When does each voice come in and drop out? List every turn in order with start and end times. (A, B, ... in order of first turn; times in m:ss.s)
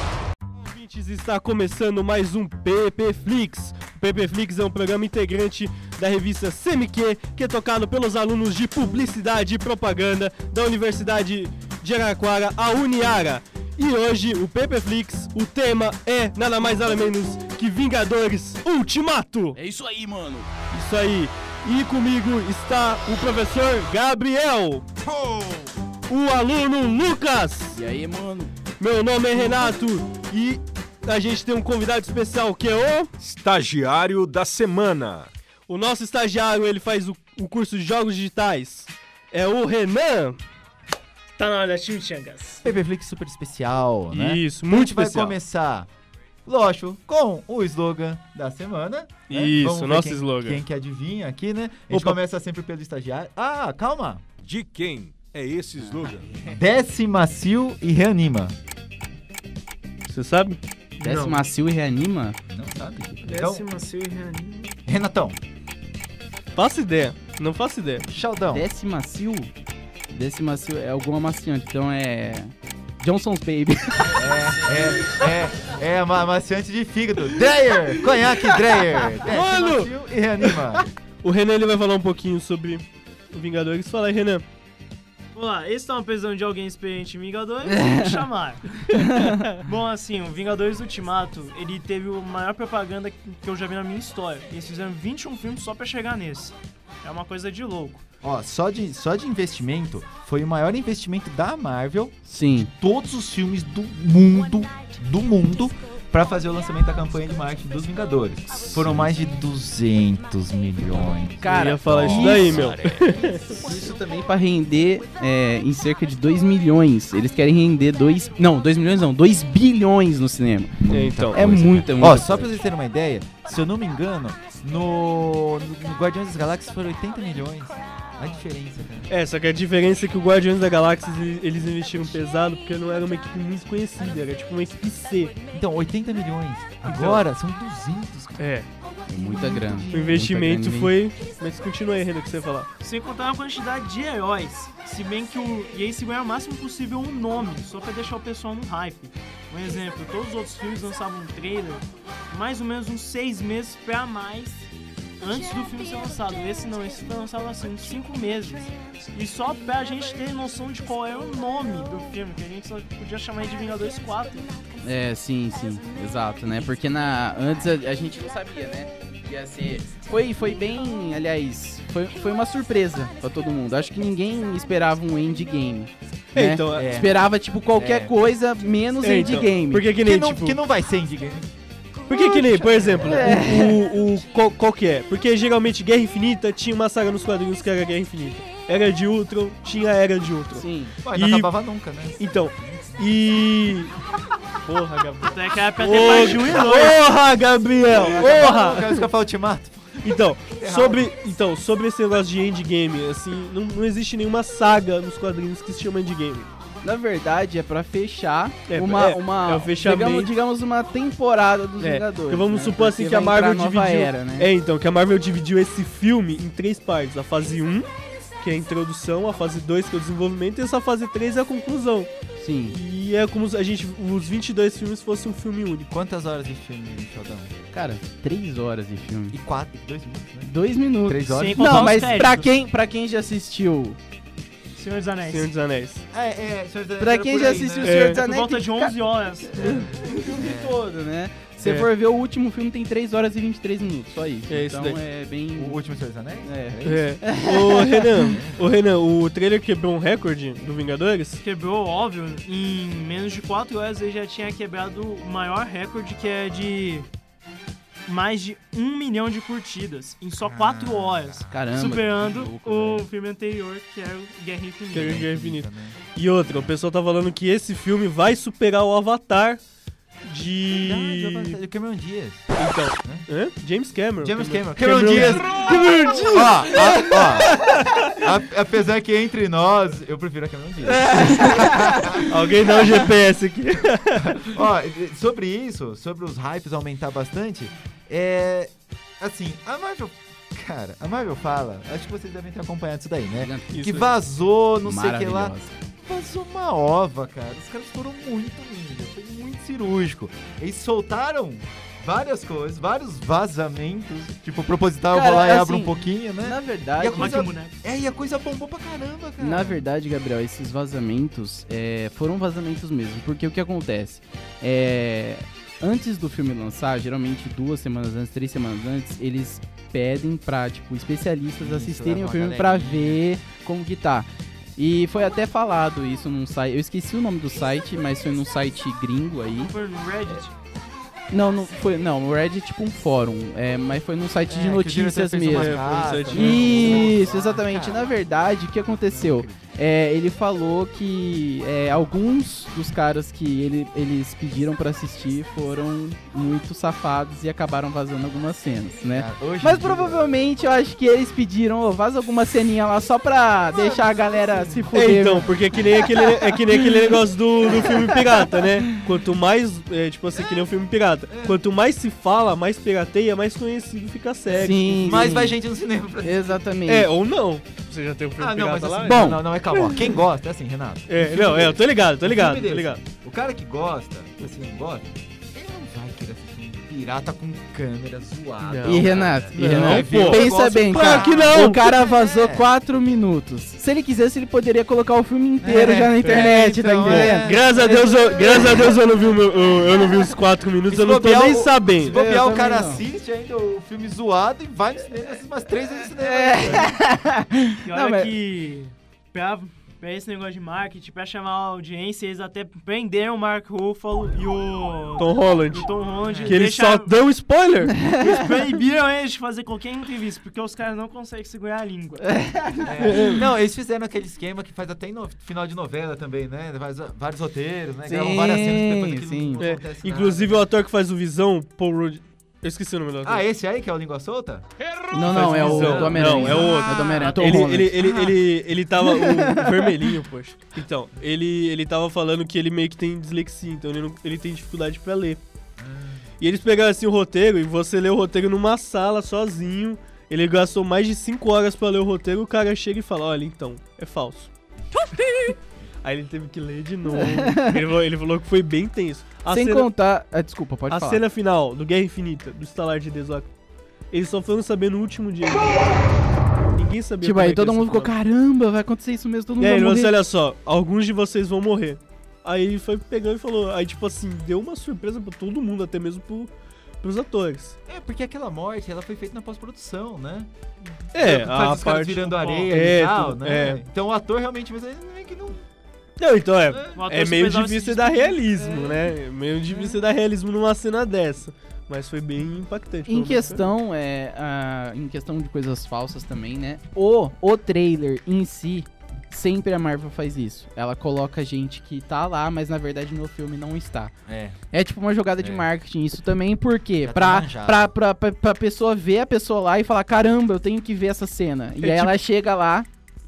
0:00.6-0:19.6 A
0:19.5-0:20.5 B
0:20.7-0:24.8 A
0:25.0-0:25.7 C
0:26.1-0:27.8 A
0:27.7-0:28.5 B
0:28.8-0:33.1 A
0:33.2-0:35.3 C
0:35.7-0:40.4 A
0:41.4-0:42.6 D
0:42.6-0:45.9 E
0:44.1-0:45.4 A
0:46.5-0:54.2 E
0:49.3-0:50.6 A
0:51.9-0:52.2 A
0:54.4-0:56.4 C
0:56.4-0:58.6 E
1:00.1-1:00.6 A
1:01.0-1:02.4 B
1:01.0-1:01.5 E
1:02.5-1:03.6 E
1:03.2-1:04.8 D
1:04.9-1:05.4 E
1:06.6-1:08.1 A
1:08.1-1:08.7 E
1:08.5-1:09.5 B
1:10.1-1:14.6 B
1:14.1-1:20.8 E
1:19.2-1:19.9 A
1:21.2-1:24.4 A
1:25.3-1:28.8 D
1:27.8-1:28.1 B
1:29.0-1:29.4 B
1:29.0-1:29.6 A
1:29.6-1:38.0 D
1:38.2-1:42.2 E
1:42.3-1:42.7 B
1:42.7-1:53.9 E
1:51.4-1:52.8 B
1:51.5-1:53.6 A
1:53.5-2:02.6 B
2:00.9-2:01.4 A
2:01.0-2:09.1 E
2:09.1-2:15.4 A
2:15.5-2:18.4 E
2:16.8-2:17.2 A
2:18.4-2:18.7 A
2:19.1-2:20.9 B
2:19.9-2:22.7 A
2:22.8-2:44.6 D
2:44.8-2:59.9 B
2:56.4-2:57.0 A
2:56.7-2:58.2 E
2:59.0-3:00.6 A
2:59.9-3:01.5 E
3:02.1-3:11.5 A
3:02.6-3:03.5 E
3:03.0-3:03.8 B
3:10.6-3:11.0 B
3:11.0-3:13.1 E
3:12.2-3:14.0 A
3:14.6-3:19.1 A
3:15.2-3:17.0 D
3:17.9-3:21.1 E
3:20.0-3:26.5 A
3:26.8-3:34.5 B
3:28.7-3:30.3 A
3:31.8-3:37.9 A
3:38.4-3:42.1 A
3:42.4-3:42.8 B
3:42.7-3:45.9 A
3:45.9-3:47.6 E
3:47.7-3:49.4 B
3:49.3-3:50.5 E
3:50.4-3:54.0 B
3:51.0-3:52.3 E
3:51.3-3:52.5 D
3:54.8-3:55.5 D
3:55.3-3:56.0 A
3:56.1-3:58.1 E
3:57.0-3:58.9 B
3:57.8-3:58.2 A
3:58.0-3:59.9 D
3:59.5-4:05.8 B
3:59.6-4:00.8 E
4:04.5-4:05.0 A
4:05.6-4:07.2 E
4:06.4-4:08.2 B
4:06.8-4:11.4 A
4:08.2-4:08.8 E
4:11.4-4:17.1 D
4:18.1-4:25.1 D
4:20.4-4:21.6 E
4:21.5-4:23.0 B
4:24.9-4:29.6 A
4:25.0-4:26.0 E
4:30.3-4:31.6 A
4:30.7-4:33.3 E
4:32.6-4:38.1 A
4:34.2-4:42.4 E
4:41.0-4:42.1 B
4:41.2-4:44.5 A
4:44.2-5:09.8 E
4:53.4-4:53.7 B
4:53.7-4:54.1 A
4:54.8-4:55.7 B
5:05.1-5:07.4 B
5:07.1-5:07.8 D
5:09.4-5:29.7 B
5:21.6-5:23.2 E
5:29.6-5:30.5 D
5:31.3-5:56.6 B
5:34.5-5:38.2 E
5:35.5-5:37.1 A
5:39.1-5:39.7 E
5:49.1-5:50.3 E
5:53.7-5:55.6 E
5:54.9-6:05.3 A
5:57.8-5:59.0 B
6:01.3-6:01.6 E
6:04.5-6:06.6 E
6:04.5-6:05.6 B
6:06.2-6:07.1 B
6:06.9-6:10.0 A
6:08.4-6:22.7 E
6:09.0-6:09.4 B
6:11.1-6:13.0 A
6:18.6-6:21.8 A
6:18.8-6:28.8 B
6:25.6-6:28.1 E
6:26.2-6:32.2 A
6:30.9-6:37.0 E
6:32.1-6:33.0 B
6:36.2-6:38.3 B
6:37.8-6:47.1 D
6:45.2-6:45.9 A
6:46.2-6:46.6 E
6:46.4-6:48.1 A
6:48.1-6:52.5 D
6:48.1-6:48.4 B
6:52.2-6:53.3 B
6:52.8-7:00.6 E
6:53.0-6:53.4 A
6:58.1-6:59.6 B
6:59.6-7:03.4 A
7:03.2-7:04.7 E
7:05.1-7:08.1 B
7:05.2-7:06.8 E
7:05.2-7:15.4 A
7:06.5-7:07.7 D
7:08.0-7:08.3 E
7:09.0-7:09.9 B
7:15.8-7:16.3 E
7:16.4-7:29.9 A
7:27.2-7:27.8 B
7:29.5-7:31.2 B
7:30.9-7:33.5 A
7:34.1-7:36.0 A
7:36.8-7:38.1 A
7:37.2-7:40.1 B
7:39.6-7:46.5 A
7:47.0-7:47.8 A
7:47.9-7:50.5 E
7:51.1-7:55.7 E
7:51.1-7:53.8 A
7:56.2-8:03.7 A
7:56.7-7:57.0 E
7:57.0-7:58.5 D
8:03.1-8:14.1 B
8:14.3-8:14.6 E
8:14.7-8:22.9 B
8:15.4-8:15.7 E
8:17.0-8:17.9 E
8:21.8-8:22.2 A